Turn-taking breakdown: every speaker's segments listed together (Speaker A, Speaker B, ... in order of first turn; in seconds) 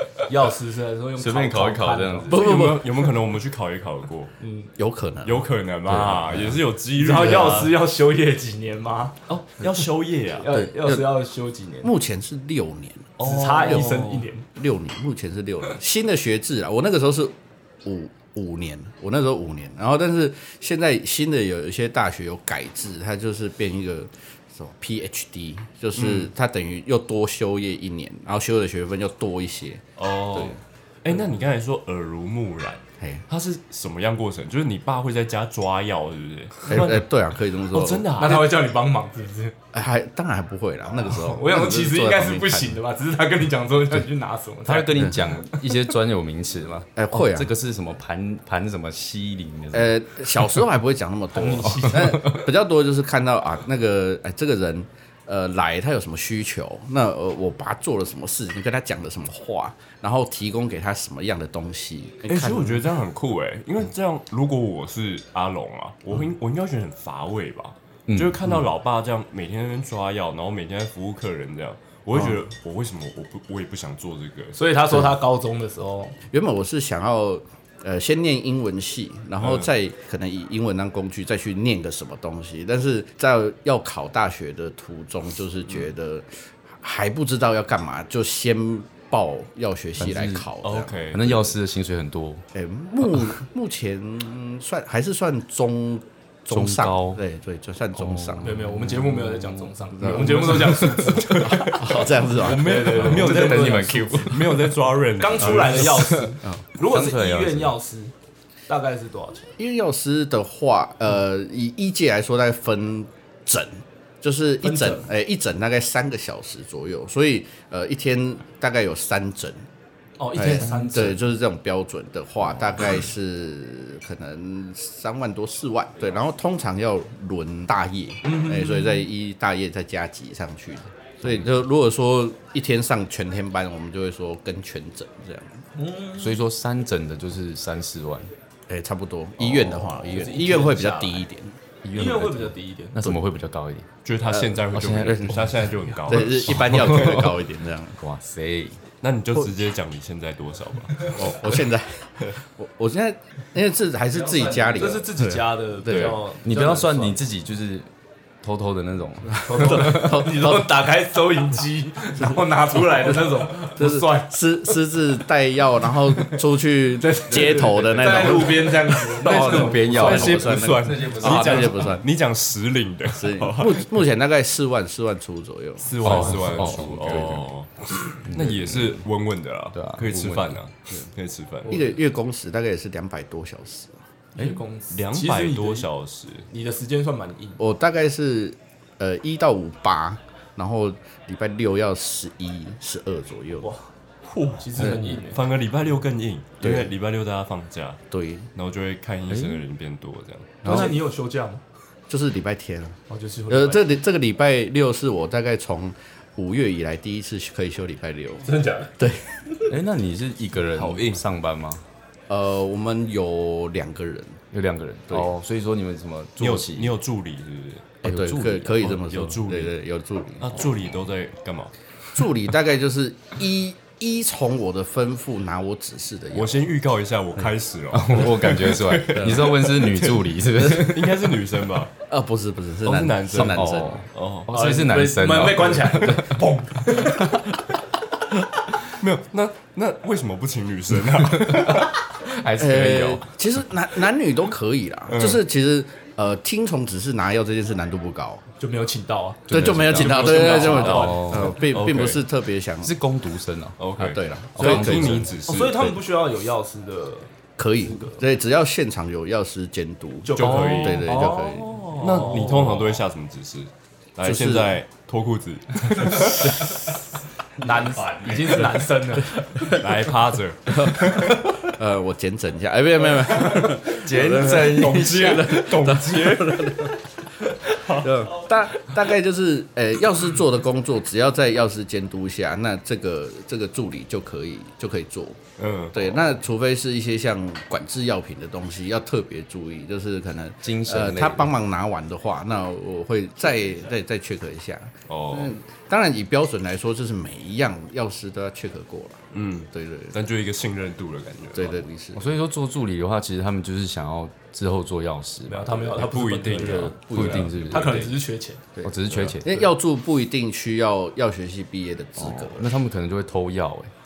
Speaker A: 0.3-2.5, 4.4-4.7, 6.9-9.2, 10.4-11.9, 13.2-14.4, 38.1-39.5, 41.3-45.8, 51.3-52.4, 74.5-76.2, 98.4-108.1, 108.7-109.5, 114.6-115.0, 120.2-121.2, 128.2-129.0, 135.7-136.4, 140.0-141.2, 141.9-143.1, 154.2-157.2, 159.4-164.3, 167.0-170.5, 181.6-182.0, 184.3-185.9, 186.5-187.6, 193.6-193.9, 194.6-195.5, 200.6-201.6, 203.1-203.9, 208.4-208.9, 234.5-237.4, 248.6-251.3, 255.4-257.3, 257.8-258.2, 260.2-263.0, 267.6-269.7, 305.5-308.6
Speaker B: 1.2-2.4, 5.9-6.6, 44.6-49.9, 68.1-68.4, 90.0-90.5, 91.1-92.4, 96.5-97.2, 98.0-101.3, 102.9-104.6, 105.6-107.8, 136.2-138.3, 141.8-143.9, 144.7-145.7, 146.8-147.2, 148.0-148.8, 155.8-157.9, 158.4-159.7, 167.6-168.3, 169.2-171.9, 176.0-177.5, 178.2-179.0, 179.7-180.6, 199.3-199.6, 209.7-211.8, 214.5-216.9, 218.0-219.0, 227.9-231.2, 233.3-236.4, 241.4-243.3, 249.5-251.6, 252.8-253.9, 254.6-255.3, 267.9-268.6, 273.9-275.7, 290.6-291.5, 302.1-308.2, 308.8-309.6, 312.2-313.9
Speaker C: 2.3-3.1, 4.8-5.4, 10.5-11.1, 11.8-30.6, 36.7-38.3, 39.7-42.8, 47.0-47.5, 49.7-62.8, 76.3-86.3, 86.8-90.9, 92.5-98.6, 100.0-100.8, 101.4-102.9, 109.6-119.6, 120.3-135.6, 138.7-141.6, 144.3-145.3, 146.1-147.9, 151.1-155.4, 159.3-160.7, 163.0-172.1, 173.1-176.5, 181.7-184.0, 187.6-193.7, 196.6-196.9, 198.1-198.5, 200.6-200.9, 202.1-203.0, 203.5-209.4, 212.3-214.4, 218.0-220.6, 222.1-226.6, 229.1-229.5, 232.1-234.0, 242.6-248.4, 249.5-252.9, 254.0-255.3, 257.6-261.8, 264.2-264.8, 269.4-269.8, 270.7-276.9, 277.5-285.4, 285.9-300.1, 301.5-302.2, 306.9-307.6, 309.4-312.7
Speaker D: 2.3-4.3, 5.2-7.8, 9.3-10.5, 13.2-14.1, 25.9-26.3, 30.0-38.6, 62.3-74.6, 79.4-79.7, 90.6-91.5, 100.0-106.3, 144.0-147.3, 149.0-151.4, 167.7-168.5, 169.9-173.9, 175.8-181.8, 184.9-186.5, 194.3-198.0, 198.5-200.8, 210.7-211.2, 216.4-218.0, 218.8-219.7, 220.4-221.7, 226.3-231.9, 232.8-234.5, 238.9-241.9, 245.1-245.4, 249.5-252.2, 253.8-255.9, 260.3-261.2, 261.9-266.8, 269.6-271.7, 273.2-276.9, 277.6-278.5, 285.6-286.2, 295.1-295.6, 299.3-301.8, 305.9-308.1, 309.1-309.4